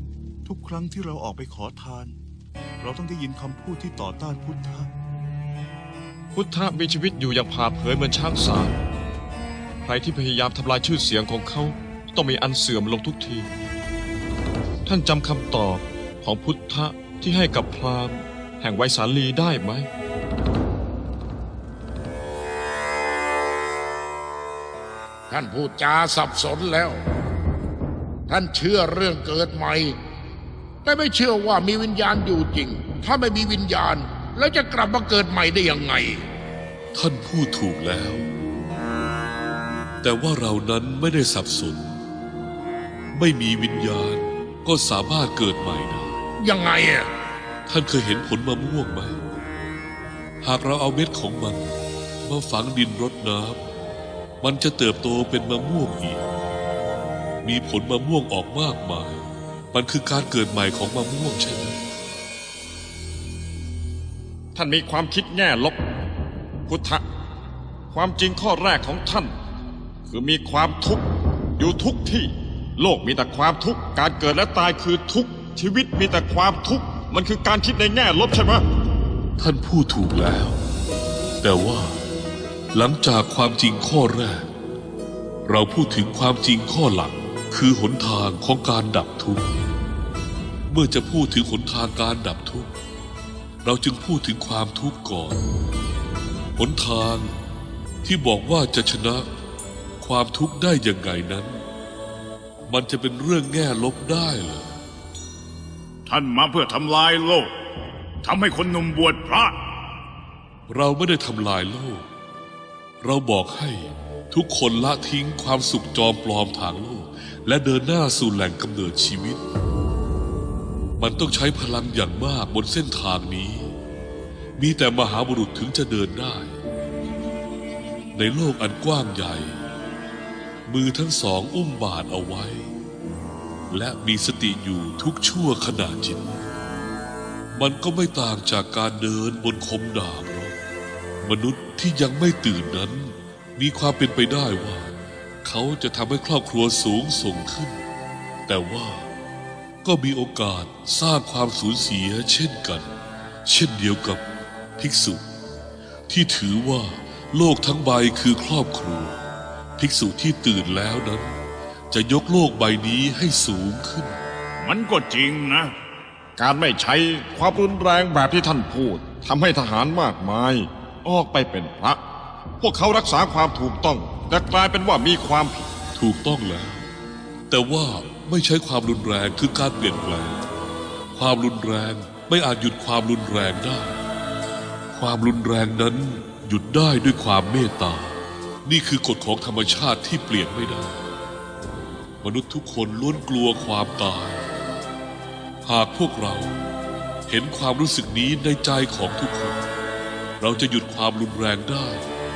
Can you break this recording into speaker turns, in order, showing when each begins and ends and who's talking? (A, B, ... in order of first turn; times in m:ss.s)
0:00.5-0:02.2 A
0:02.8-0:04.9 A
0:06.3-0:08.8 B
0:09.8-0:13.5 B
0:14.9-0:19.9 B
0:25.3-0:27.0 C
0:28.3-0:30.0 C
0:30.8-0:36.2 C
0:36.9-0:38.3 D
0:40.0-0:41.9 D
0:43.1-0:46.2 D
0:46.4-0:47.1 C
0:47.7-0:49.2 D
0:50.4-0:51.7 D
0:52.2-0:53.6 D
0:54.4-0:56.3 D
0:57.4-1:01.8 D
1:04.6-1:05.8 B
1:06.7-1:07.0 B
1:07.9-1:09.4 B
1:10.1-1:11.0 B
1:11.6-1:18.7 B
1:19.4-1:20.6 D
1:21.4-1:22.0 D
1:22.7-1:24.5 D
1:25.5-1:29.6 D
1:30.7-1:32.7 D
1:33.6-1:35.4 D
1:36.6-1:37.4 D
1:38.0-1:39.3 D
1:40.0-1:41.6 D
1:42.7-1:44.8 D
1:46.1-1:47.5 E
1:48.2-1:49.6 E
1:50.7-1:52.1 D
1:53.0-1:59.4 D
2:01.0-2:03.7 D
2:04.6-2:06.6 D
2:08.2-2:09.6 D
2:10.7-2:12.7 D
2:13.7-2:16.4 D
2:17.5-2:20.6 D
2:21.2-2:24.9 D
2:25.4-2:27.8 D
2:28.5-2:29.1 D
2:29.8-2:32.9 D
2:33.5-2:34.2 D
2:34.8-2:35.2 D
2:36.1-2:39.2 D
2:39.8-2:41.4 D
2:41.9-2:44.2 D
2:44.6-2:45.7 E
2:46.4-2:52.0 B
2:52.6-2:55.7 B
2:56.0-2:56.9 D
2:57.5-3:00.4 D
3:01.1-3:04.0 D
3:04.9-3:11.0 D
3:12.2-3:14.4 D
3:15.6-3:16.6 D
3:17.3-3:19.6 D
3:20.4-3:22.0 D